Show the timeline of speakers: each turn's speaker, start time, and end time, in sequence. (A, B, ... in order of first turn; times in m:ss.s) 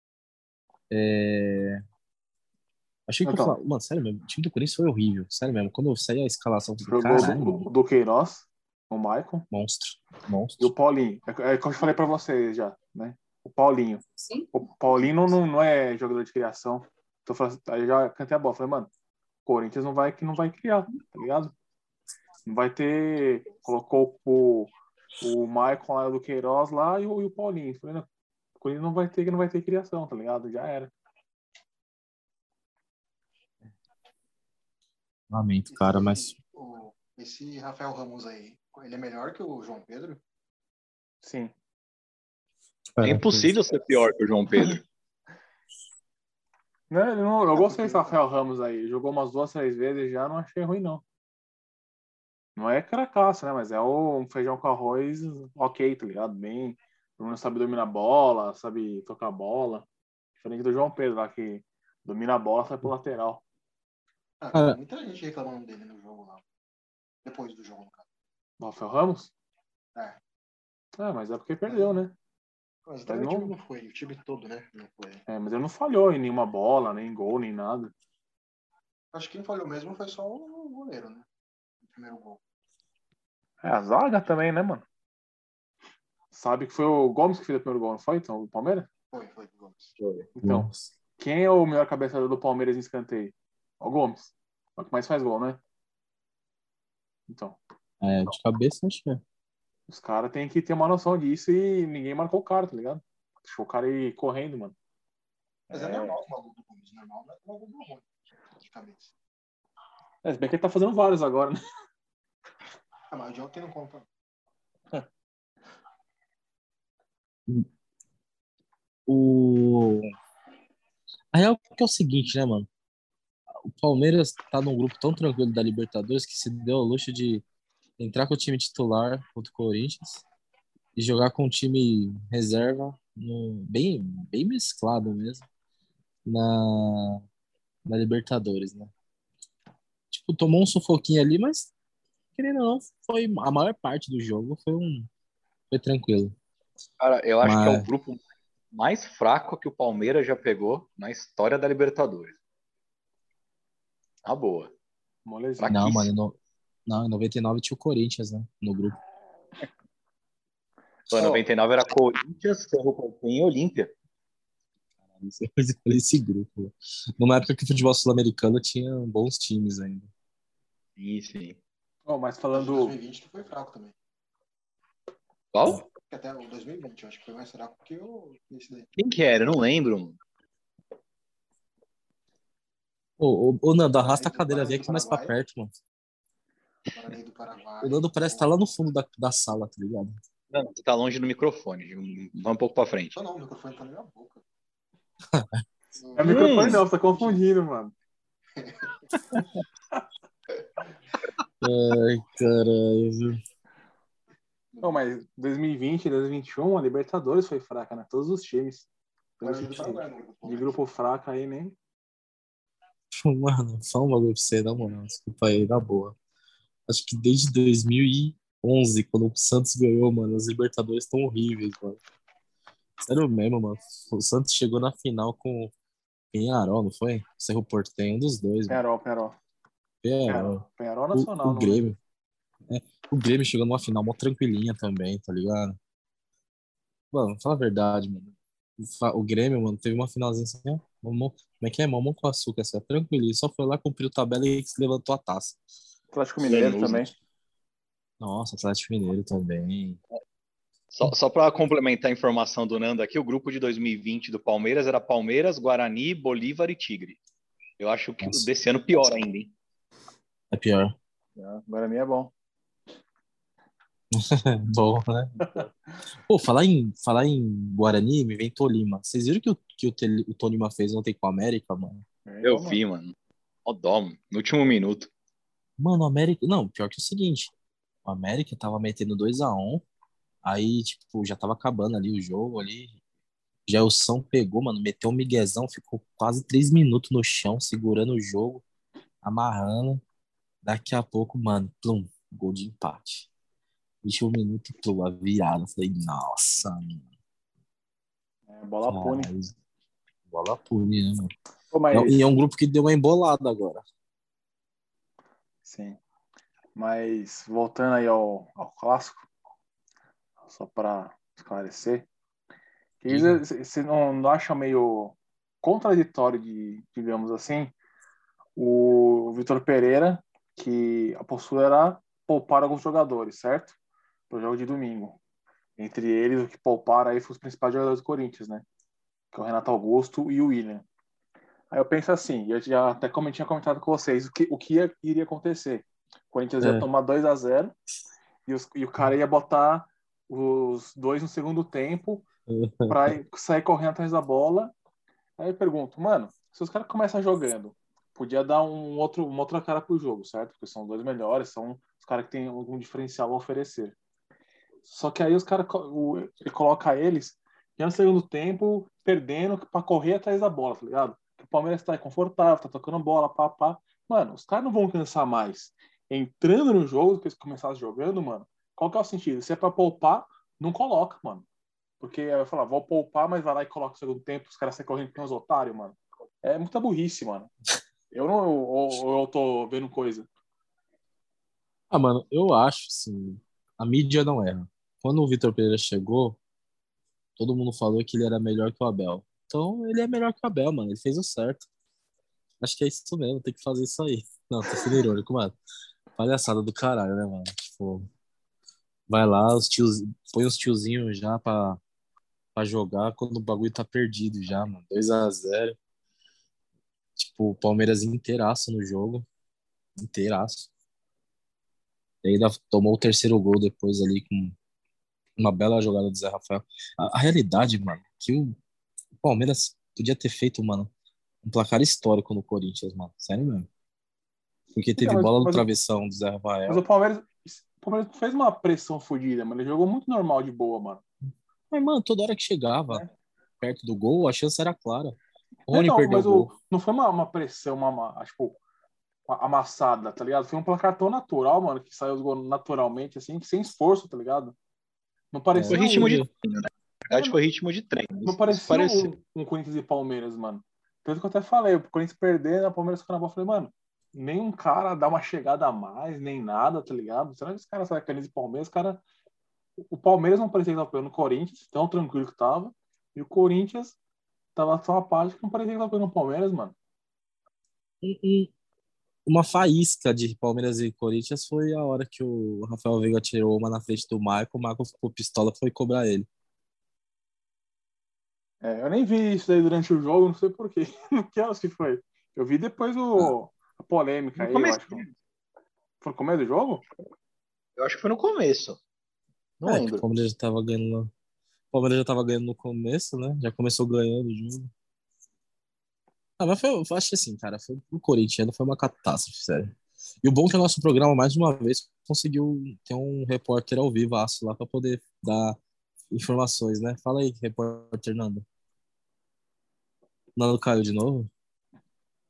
0:00.9-0:01.8 A
0:03.1-0:07.7 A
0:03.2-0:03.6 B
0:06.8-0:09.5 B
0:09.5-0:10.7 A
0:10.6-0:18.9 B
0:19.4-0:21.5 B
0:22.5-0:28.1 B
0:28.6-0:30.9 B
0:35.3-0:36.4 A
0:35.7-0:40.2 C
0:41.2-0:41.5 B
0:43.0-0:43.5 A
0:43.0-0:44.8 D
0:46.9-0:51.0 B
0:47.5-0:48.2 C
0:52.6-0:59.9 B
1:00.4-1:03.4 B
1:04.4-1:06.4 C
1:04.5-1:04.8 A
1:07.2-1:08.0 C
1:08.6-1:09.3 B
1:11.0-1:12.2 B
1:11.7-1:12.0 C
1:12.9-1:15.2 C
1:13.1-1:13.6 B
1:15.3-1:17.9 B
1:19.1-1:21.3 C
1:21.8-1:22.4 C
1:23.6-1:24.8 B
1:26.3-1:28.9 B
1:29.1-1:29.9 C
1:30.0-1:30.3 D
1:30.4-1:35.6 B
1:30.4-1:30.9 A
1:37.3-1:37.6 B
1:38.0-1:39.2 A
1:39.9-1:44.8 B
1:45.7-1:46.2 B
1:45.7-1:48.1 C
1:48.6-1:49.1 C
1:50.2-1:51.6 B
1:53.1-1:54.1 C
1:59.1-2:00.1 A
2:01.3-2:02.7 A
2:03.6-2:07.4 A
2:08.0-2:10.2 A
2:11.0-2:15.5 A
2:16.2-2:17.2 A
2:17.9-2:18.9 A
2:20.1-2:21.7 A
2:22.4-2:25.1 A
2:25.7-2:26.4 A
2:27.0-2:28.2 D
2:27.4-2:27.9 A
2:28.7-2:32.4 D
2:34.2-2:34.7 D
2:35.2-2:35.8 B
2:35.6-2:36.1 D
2:35.7-2:39.0 A
2:41.1-2:43.9 D
2:45.3-2:50.1 A
2:51.0-2:51.6 D
2:52.1-2:53.0 B
2:52.5-2:54.0 C
2:55.5-2:55.8 D
2:56.1-2:58.9 C
2:59.0-3:00.2 D
3:03.2-3:05.8 A
3:04.0-3:05.3 C
3:06.9-3:08.5 C
3:07.8-3:10.2 A
3:10.5-3:13.2 D
3:13.2-3:14.4 C
3:15.3-3:15.6 A
3:16.0-3:17.4 C
3:16.2-3:17.9 B
3:16.3-3:16.8 D
3:18.6-3:18.9 C
3:21.6-3:23.4 A
3:24.7-3:25.0 C
3:24.8-3:28.9 B
3:29.4-3:31.8 B
3:29.4-3:30.8 C
3:33.1-3:36.2 A
3:36.9-3:42.0 A
3:43.0-3:45.7 A
3:46.3-3:48.8 A
3:48.7-3:49.4 B
3:50.0-3:50.6 A
3:50.3-3:51.9 B
3:51.1-3:52.0 A
3:52.7-3:55.8 A
3:57.1-4:05.6 A
4:06.1-4:07.1 B
4:06.4-4:07.1 D
4:08.2-4:10.0 A
4:10.9-4:17.2 D
4:17.8-4:19.5 D
4:20.5-4:21.0 A
4:21.4-4:22.3 B
4:24.1-4:25.7 A
4:26.3-4:32.0 A
4:32.3-4:32.8 B
4:32.4-4:35.1 D
4:35.8-4:37.5 A
4:38.0-4:39.8 A
4:40.4-4:43.0 A
4:43.7-4:48.6 A
4:49.2-4:50.0 A
4:50.6-4:53.3 A
4:54.0-4:57.0 A
4:58.5-4:59.3 B
4:58.8-4:59.6 A
5:00.3-5:01.3 A
5:01.7-5:02.2 B
5:01.9-5:03.9 A
5:05.6-5:06.0 B
5:06.8-5:09.3 B
5:10.4-5:12.1 B
5:13.0-5:17.7 B
5:13.1-5:13.4 A
5:18.6-5:23.8 B
5:24.3-5:25.2 B
5:25.8-5:28.6 B
5:29.3-5:30.8 B
5:31.7-5:37.7 B
5:36.6-5:36.9 A
5:38.5-5:42.2 B
5:42.5-5:43.1 A
5:42.9-5:44.7 B
5:45.4-5:54.0 B
5:54.8-6:11.4 B
6:12.0-6:17.5 B
6:18.1-6:20.3 B
6:21.9-6:26.4 A
6:27.4-6:31.7 A
6:32.6-6:35.6 A
6:36.2-6:38.1 A
6:39.1-6:41.8 A
6:42.6-6:45.8 A
6:47.2-6:49.3 A
6:50.0-6:50.7 A
6:52.2-6:54.6 A
6:55.4-6:58.6 A
6:59.2-7:00.9 A
7:01.4-7:03.7 A
7:04.8-7:06.8 A
7:05.0-7:05.7 B
7:06.7-7:11.0 B
7:11.7-7:13.0 A
7:13.6-7:16.5 A
7:15.7-7:18.6 B
7:19.3-7:24.6 B
7:25.3-7:26.2 B
7:25.6-7:26.3 A
7:25.7-7:29.1 D
7:27.1-7:27.4 B
7:28.2-7:39.0 B
7:39.8-7:44.0 B
7:44.6-7:46.8 B
7:48.0-7:48.5 A
7:49.3-7:56.3 A
7:58.6-8:05.1 B
8:04.4-8:05.1 D
8:06.0-8:06.8 B
8:07.8-8:08.8 D
8:09.6-8:10.1 D
8:09.6-8:11.1 A
8:11.7-8:14.7 A
8:16.4-8:25.6 A
8:26.1-8:28.4 A
8:30.4-8:31.3 A